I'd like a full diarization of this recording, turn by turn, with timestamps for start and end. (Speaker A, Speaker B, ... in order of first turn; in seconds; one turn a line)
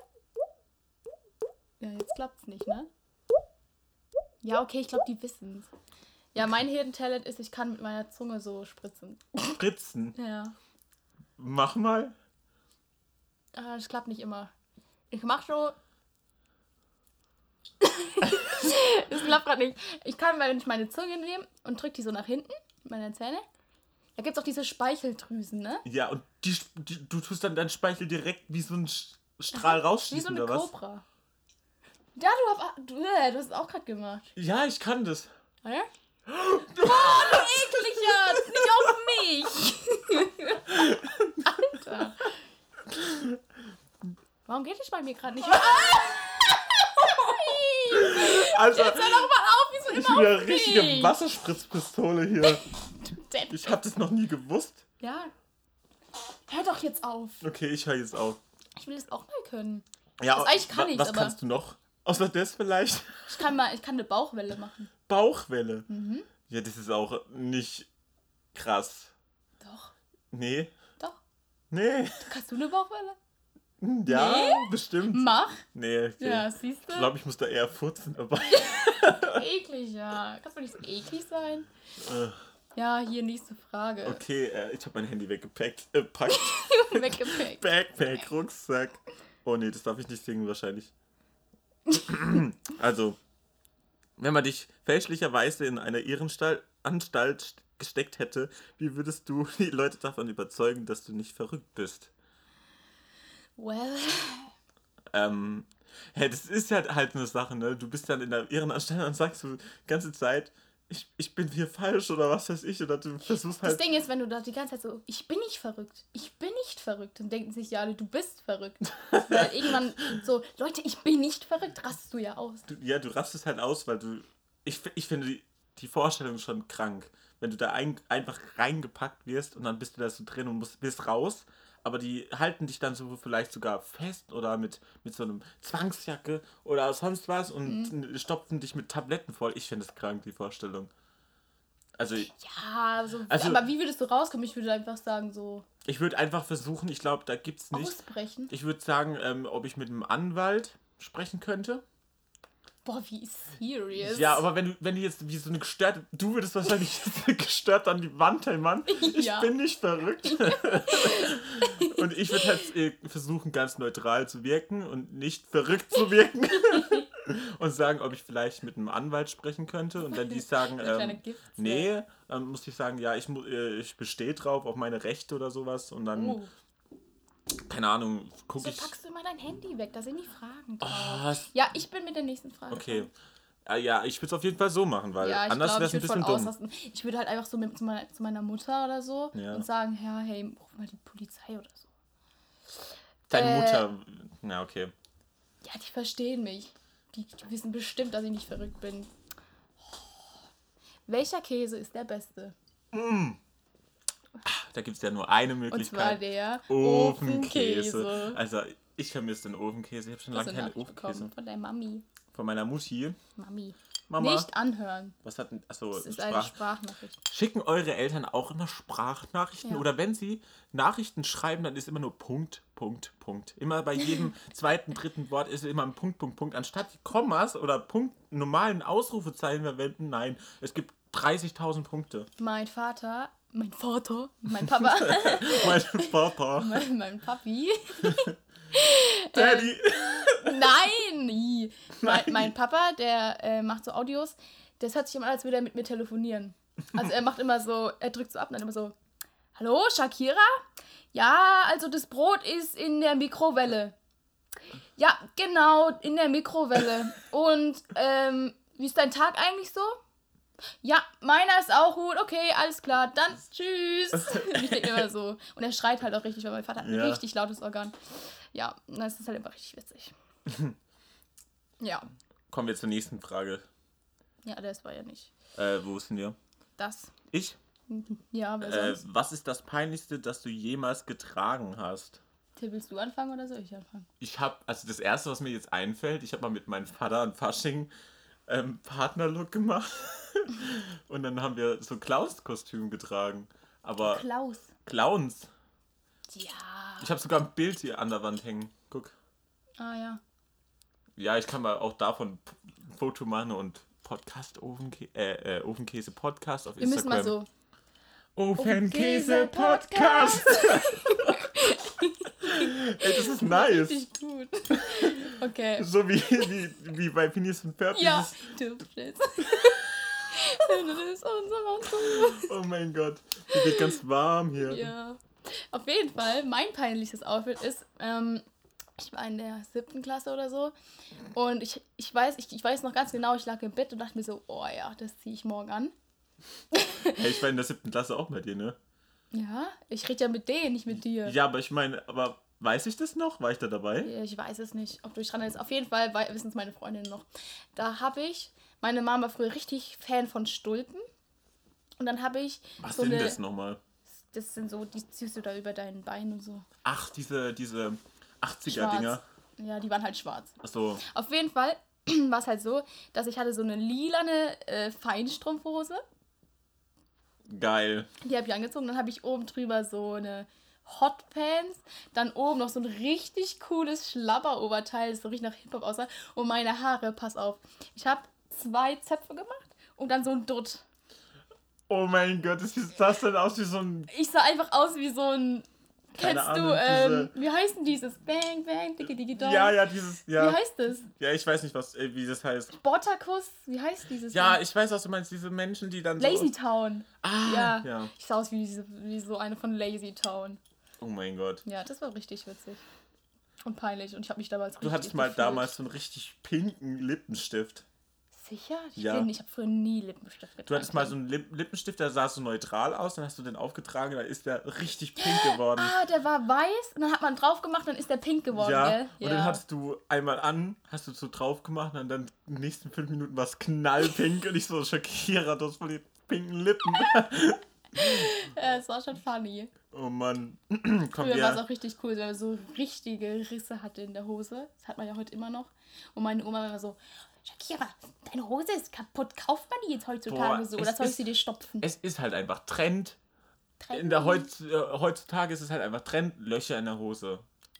Speaker A: 1.8-2.9
Speaker A: 4.4-5.7
Speaker A: 6.3-9.6
Speaker B: 9.6-10.2
Speaker A: 10.2-10.5
Speaker B: 11.4-12.1
Speaker A: 13.5-14.5
Speaker A: 15.1-15.7
Speaker A: 17.8-23.4
Speaker A: 24.2-25.8
Speaker B: 25.8-30.7
Speaker A: 29.5-31.0
Speaker A: 32.1-34.3
Speaker B: 34.4-35.3
Speaker B: 36.3-39.0
Speaker A: 36.7-40.8
Speaker B: 40.7-41.8
Speaker A: 41.4-42.3
Speaker B: 42.9-43.4
Speaker A: 44.5-51.2
Speaker B: 47.9-49.3
Speaker B: 49.9-52.6
Speaker A: 52.4-53.6
Speaker B: 53.5-54.8
Speaker A: 55.0-55.3
Speaker A: 56.5-57.4
Speaker B: 57.4-58.4
Speaker A: 58.8-61.4
Speaker B: 60.2-63.5
Speaker A: 63.3-64.9
Speaker B: 65.1-65.9
Speaker A: 65.9-66.3
Speaker B: 66.5-67.9
Speaker B: 68.5-69.1
Speaker A: 69.6-69.9
Speaker B: 70.3-70.7
Speaker B: 71.7-72.3
Speaker A: 72.2-73.2
Speaker B: 73.8-79.4
Speaker A: 74.0-75.6
Speaker A: 76.2-77.1
Speaker A: 79.2-81.7
Speaker B: 82.0-82.4
Speaker A: 82.7-84.2
Speaker B: 84.0-90.9
Speaker A: 86.3-87.6
Speaker B: 91.9-93.2
Speaker B: 94.2-102.1
Speaker A: 103.6-104.5
Speaker B: 105.1-113.8
Speaker A: 113.6-122.7
Speaker B: 119.3-119.7
Speaker B: 122.7-140.9
Speaker A: 137.7-137.9
Speaker B: 142.0-142.3
Speaker A: 142.2-145.7
Speaker B: 143.3-143.6
Speaker B: 145.8-148.0
Speaker A: 147.7-148.5
Speaker B: 148.5-151.8
Speaker A: 152.8-154.4
Speaker B: 154.0-176.4
Speaker A: 158.9-159.5
Speaker A: 160.2-162.5
Speaker A: 170.1-171.9
Speaker A: 176.1-176.5
Speaker B: 177.7-178.9
Speaker A: 178.6-183.1
Speaker B: 180.8-181.5
Speaker B: 182.7-183.1
Speaker B: 183.7-186.5
Speaker A: 185.2-191.9
Speaker B: 189.3-189.7
Speaker A: 193.3-193.9
Speaker B: 193.3-194.9
Speaker A: 195.6-199.1
Speaker A: 199.9-200.2
Speaker A: 201.1-202.5
Speaker B: 202.9-203.4
Speaker B: 204.4-211.3
Speaker A: 205.7-208.4
Speaker A: 210.3-212.0
Speaker B: 212.3-213.2
Speaker A: 213.3-215.2
Speaker B: 214.1-214.5
Speaker B: 215.2-216.5
Speaker A: 215.9-217.2
Speaker B: 217.3-232.3
Speaker A: 232.4-248.9
Speaker B: 234.7-236.8
Speaker B: 238.0-238.3
Speaker B: 239.3-240.8
Speaker B: 242.0-242.5
Speaker A: 249.5-250.5
Speaker A: 251.1-253.9
Speaker A: 254.9-260.0
Speaker A: 260.8-267.9
Speaker B: 264.3-265.0
Speaker B: 266.8-267.2
Speaker A: 268.5-270.1
Speaker B: 270.5-270.7
Speaker A: 271.8-272.1
Speaker B: 272.5-273.6
Speaker A: 274.4-275.3
Speaker B: 275.6-276.4
Speaker A: 276.8-277.1
Speaker B: 277.3-277.6
Speaker A: 277.9-279.0
Speaker B: 278.6-282.2
Speaker A: 282.6-284.1
Speaker B: 284.2-287.9
Speaker B: 288.5-294.2
Speaker A: 294.0-294.7
Speaker B: 294.8-295.5
Speaker A: 296.3-297.1
Speaker B: 297.0-299.1
Speaker A: 299.8-300.2
Speaker B: 301.2-307.4
Speaker A: 306.8-307.5
Speaker B: 308.4-311.8
Speaker A: 308.6-315.9
Speaker B: 312.4-314.0
Speaker B: 314.7-318.4
Speaker A: 317.9-322.5
Speaker B: 321.9-324.9
Speaker A: 323.5-324.0
Speaker A: 324.6-328.4
Speaker A: 329.0-330.7
Speaker A: 331.3-335.9
Speaker A: 336.7-337.2
Speaker B: 337.1-338.8
Speaker A: 339.3-341.4
Speaker B: 341.2-344.1
Speaker A: 344.0-351.0
Speaker A: 352.0-353.4
Speaker B: 352.8-353.8
Speaker A: 354.3-356.6
Speaker B: 356.8-359.2
Speaker A: 358.6-366.0
Speaker B: 360.6-361.0
Speaker B: 367.5-368.1
Speaker A: 368.2-380.8
Speaker B: 381.9-384.1
Speaker A: 384.1-391.1
Speaker B: 386.2-387.3
Speaker B: 389.3-390.6
Speaker B: 391.1-392.8
Speaker A: 392.7-394.6
Speaker B: 394.3-396.5
Speaker A: 396.2-400.6
Speaker B: 397.2-398.1
Speaker B: 401.0-401.6
Speaker A: 401.6-402.8
Speaker A: 403.6-405.7
Speaker B: 404.8-407.8
Speaker A: 408.3-411.1
Speaker B: 409.0-409.3
Speaker B: 410.7-415.9
Speaker A: 415.2-419.6
Speaker B: 418.5-428.3
Speaker A: 428.0-429.7
Speaker B: 429.9-431.6
Speaker A: 431.1-441.8
Speaker B: 440.3-441.2
Speaker B: 441.8-443.2
Speaker A: 443.8-444.5
Speaker B: 443.9-447.4